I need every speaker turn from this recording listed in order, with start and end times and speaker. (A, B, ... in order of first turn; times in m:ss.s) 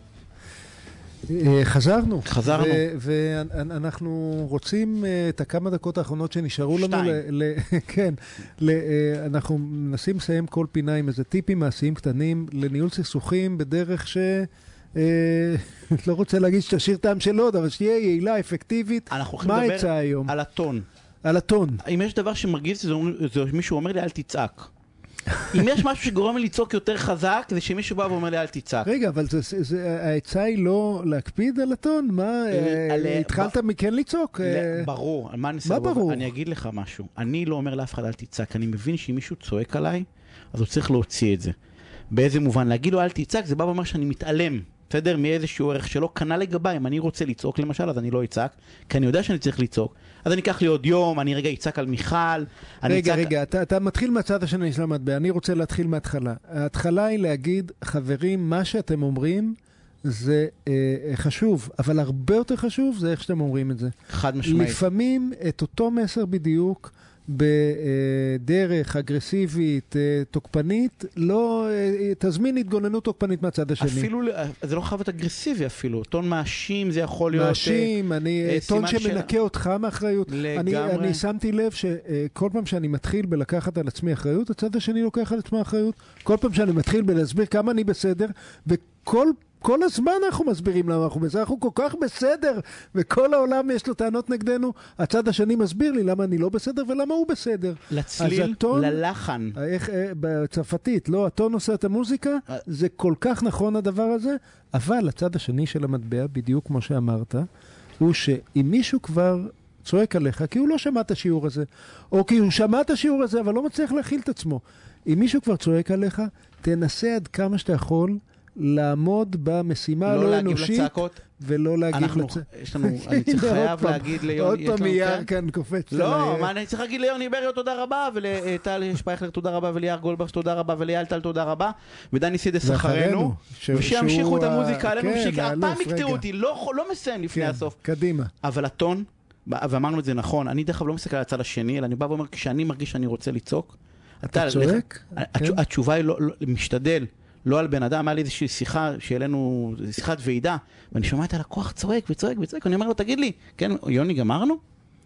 0:01.3-0:20.3 A
0:02.2-0:02.8 B
0:06.7-0:07.2 B
0:19.1-0:20.8 B
0:21.2-0:21.8 A
0:21.8-0:24.7 B
0:25.5-0:28.9 B
0:28.8-0:34.9 A
0:32.5-0:33.5 B
0:34.4-0:41.5 B
0:35.6-0:36.3 A
0:42.1-0:53.3 B
0:52.8-1:14.1 A
1:04.1-1:04.8 B
1:13.8-1:17.9 B
1:17.3-1:39.0 A
1:18.4-1:19.3 B
1:20.3-1:21.2 B
1:37.9-1:39.6 B
1:39.5-1:47.5 A
1:48.0-2:06.5 A
2:00.0-2:01.2 B
2:01.9-2:05.3 B
2:05.9-2:17.8 B
2:12.6-2:16.2 A
2:17.3-2:18.3 A
2:18.4-2:34.6 B
2:24.2-2:25.6 A